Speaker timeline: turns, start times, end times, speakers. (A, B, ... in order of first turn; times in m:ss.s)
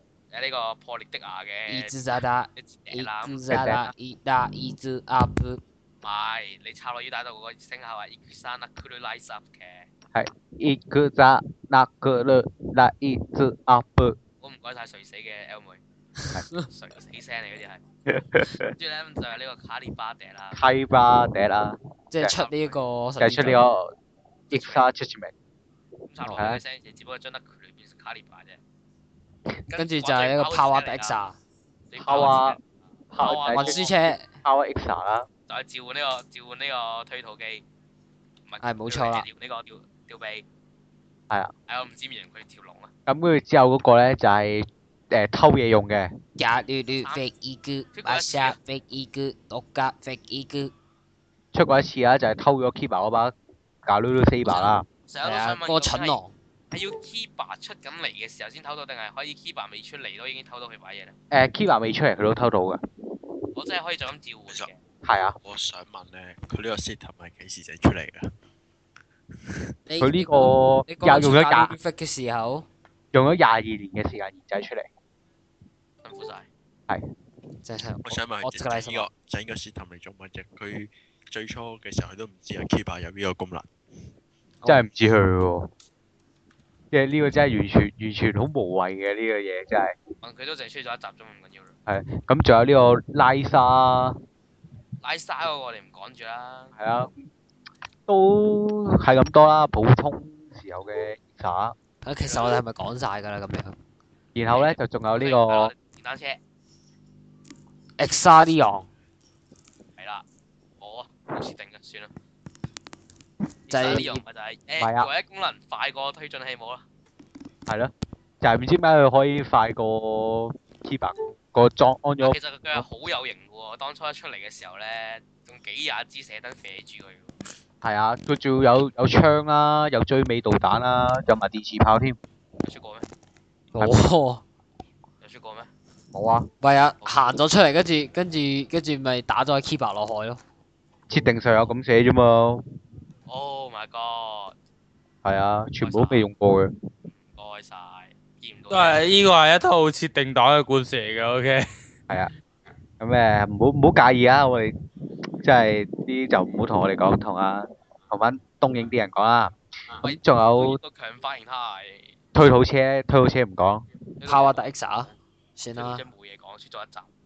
0:00.3-0:01.9 A
0:01.7-0:05.6 B
0:02.6-0:03.4 A
0:03.5-0:03.9 C
0:06.0-0:09.9 A
0:10.1-0:14.2 C
0:14.4-0:15.8 A
0:16.2-0:16.7 B
0:16.6-0:17.8 A
0:18.1-0:18.7 C
0:18.6-0:20.6 A
0:20.5-0:22.3 C
0:22.1-0:23.6 B
0:22.3-0:22.8 A
0:23.2-0:23.9 C
0:24.5-0:24.8 A
0:24.5-0:25.3 C
0:26.1-0:28.6 A
0:26.2-0:26.6 C
0:29.7-0:31.2 A
0:29.7-0:31.4 B
0:31.9-0:32.6 A
0:32.0-0:32.6 C
0:33.1-0:35.3 C
0:33.2-0:33.9 A
0:33.5-0:34.3 B
0:35.5-0:37.6 A
0:38.5-0:40.4 A
0:38.6-0:39.2 B
0:41.7-0:42.9 A
0:43.1-0:46.1 C
0:46.4-0:50.7 B
0:47.9-0:48.6 A
0:51.5-0:53.3 C
0:53.8-0:54.8 C
0:54.5-0:56.2 A
0:55.2-0:56.3 B
0:56.7-1:01.1 A
1:01.3-1:02.8 C
1:03.5-1:04.8 A
1:05.0-1:05.4 C
1:05.4-1:08.3 D
1:09.9-1:12.6 B
1:10.0-1:11.7 C
1:13.1-1:14.9 C
1:16.0-1:16.5 A
1:17.6-1:19.1 B
1:18.0-1:23.7 D
1:24.6-1:24.8 B
1:24.6-1:25.7 C
1:26.9-1:30.0 C
1:30.2-1:31.7 A
1:31.9-1:34.2 C
1:35.0-1:36.7 A
1:36.8-1:37.1 C
1:38.1-1:41.7 C
1:42.0-1:43.7 B
1:42.2-1:42.6 A
1:44.3-1:45.7 C
1:44.5-1:46.4 A
1:48.0-1:48.9 B
1:50.0-1:50.2 A
1:50.8-1:52.1 A
1:53.7-1:54.2 B
1:53.7-1:56.8 A
1:54.8-1:55.1 C
1:57.7-2:02.9 C
2:02.2-2:07.3 A
2:07.8-2:12.2 C
2:12.6-2:13.1 A
2:13.7-2:14.4 B
2:13.8-2:14.0 C
2:15.2-2:15.7 A
2:16.1-2:16.5 C
2:16.6-2:20.4 B
2:17.0-2:17.3 A
2:21.1-2:22.6 C
2:23.3-2:24.5 A
2:25.2-2:26.7 C
2:25.8-2:26.3 A
2:27.2-2:29.3 A
2:28.7-2:31.6 E
2:33.0-2:34.7 C
2:35.4-2:40.8 C
2:40.0-2:42.2 A
2:42.3-2:43.8 C
2:44.2-2:44.7 A
2:44.2-2:46.0 B
2:45.7-2:47.1 A